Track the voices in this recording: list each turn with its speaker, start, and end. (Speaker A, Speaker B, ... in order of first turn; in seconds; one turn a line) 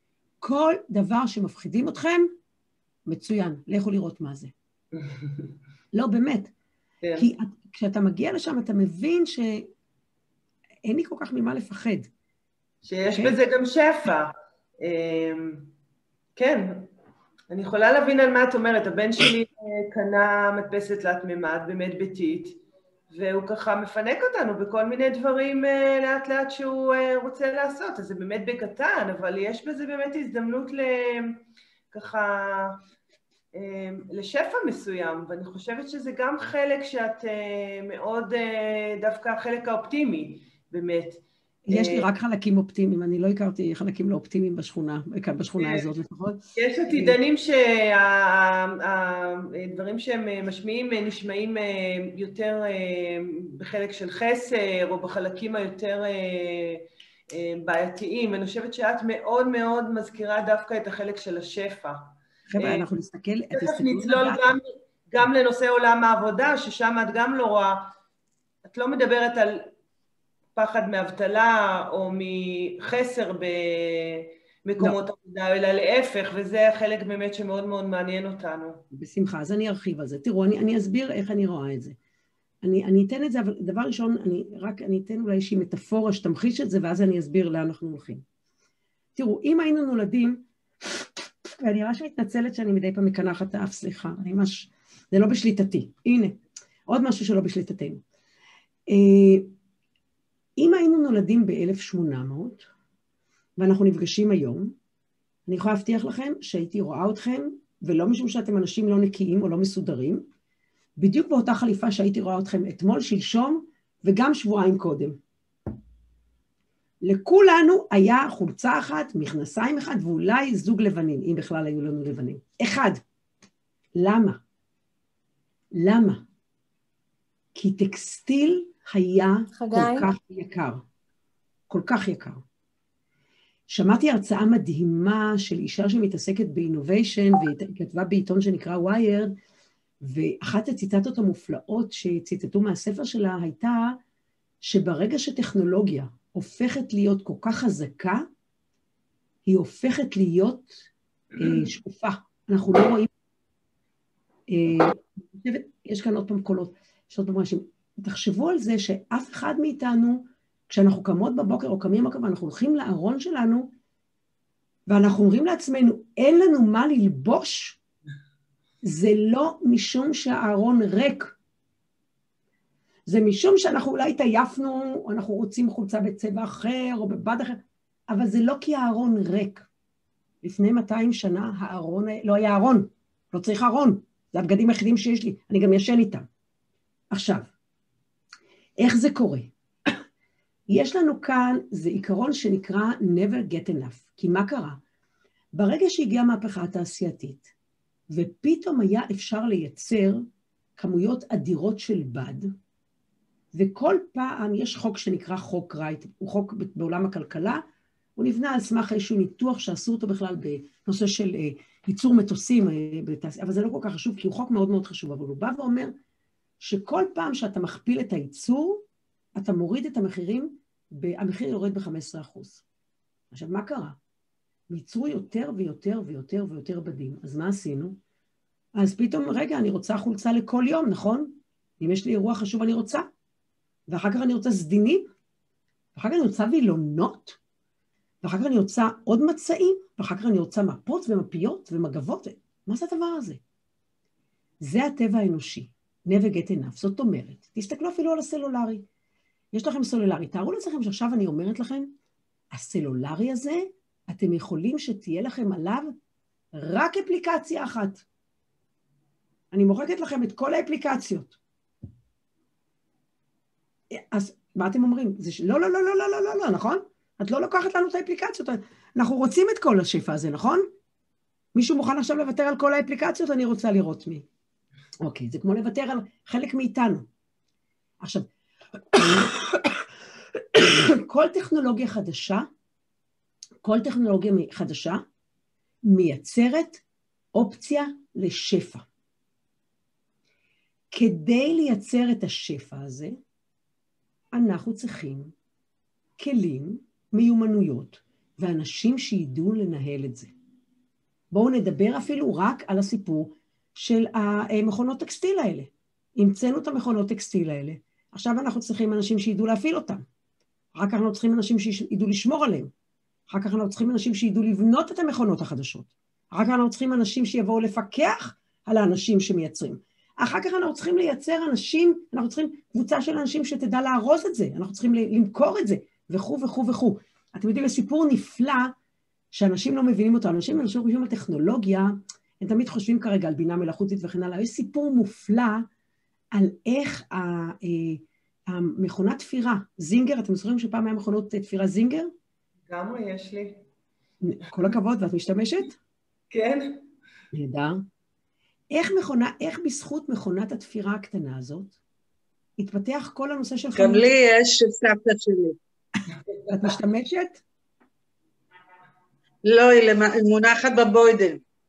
Speaker A: 0.4-2.3
Speaker A: 3.1-4.5
Speaker B: 4.9-5.5
Speaker A: 5.9-6.5
Speaker A: 7.2-9.7
Speaker A: 10.9-12.1
Speaker B: 12.8-15.7
Speaker A: 13.1-13.4
Speaker B: 16.4-16.9
Speaker B: 17.5-31.4
Speaker B: 31.9-32.8
Speaker B: 33.5-42.1
Speaker A: 41.7-47.2
Speaker B: 45.6-45.9
Speaker B: 46.6-62.9
Speaker A: 62.5-64.6
Speaker B: 63.5-67.9
Speaker B: 68.7-69.7
Speaker B: 70.5-78.8
Speaker A: 78.9-82.0
Speaker A: 82.6-88.2
Speaker A: 89.2-90.4
Speaker A: 91.6-98.0
Speaker A: 98.9-99.5
Speaker A: 100.6-102.7
Speaker A: 103.6-104.7
Speaker A: 105.5-110.2
Speaker A: 111.0-115.2
Speaker A: 117.0-123.0
Speaker A: 123.9-124.4
Speaker A: 125.7-126.2
Speaker A: 127.5-130.8
Speaker C: 129.6-130.1
Speaker A: 131.7-132.4
Speaker A: 133.7-139.3
Speaker A: 140.0-144.0
Speaker A: 144.6-148.3
Speaker A: 149.4-150.9
Speaker A: 151.4-153.1
Speaker A: 154.5-163.7
Speaker A: 164.9-167.8
Speaker A: 168.8-171.3
Speaker A: 173.1-179.7
Speaker A: 180.4-186.3
Speaker A: 187.1-187.5
Speaker A: 188.8-189.5
Speaker A: 190.7-194.8
Speaker A: 195.5-197.5
Speaker A: 198.1-200.2
Speaker A: 200.8-202.5
Speaker A: 203.5-207.6
Speaker A: 208.2-215.9
Speaker A: 216.6-218.8
Speaker A: 219.4-222.6
Speaker A: 223.3-224.0
Speaker A: 224.7-228.0
Speaker A: 228.8-233.1
Speaker A: 233.9-235.1
Speaker A: 235.9-237.4
Speaker A: 238.2-243.4
Speaker A: 244.6-248.8
Speaker A: 249.5-251.9
Speaker A: 252.5-255.9
Speaker A: 256.5-258.0
Speaker A: 259.5-261.4
Speaker A: 263.9-270.6
Speaker A: 271.5-274.2
Speaker A: 275.0-277.1
Speaker A: 278.0-278.3
Speaker A: 278.9-279.8
Speaker A: 280.5-282.5
Speaker A: 283.6-285.0
Speaker A: 285.9-286.8
Speaker A: 287.3-288.9
Speaker A: 290.9-293.2
Speaker A: 294.3-295.3
Speaker A: 296.2-300.3
Speaker A: 301.3-310.0
Speaker A: 310.8-312.7
Speaker A: 313.3-328.7
Speaker A: 329.3-335.6
Speaker A: 336.3-342.1
Speaker B: 342.7-343.6
Speaker A: 344.2-345.8
Speaker B: 346.3-346.8
Speaker A: 347.3-347.8
Speaker A: 348.7-351.8
Speaker A: 352.6-354.1
Speaker C: 353.7-355.6
Speaker A: 356.5-357.4
Speaker C: 359.4-361.4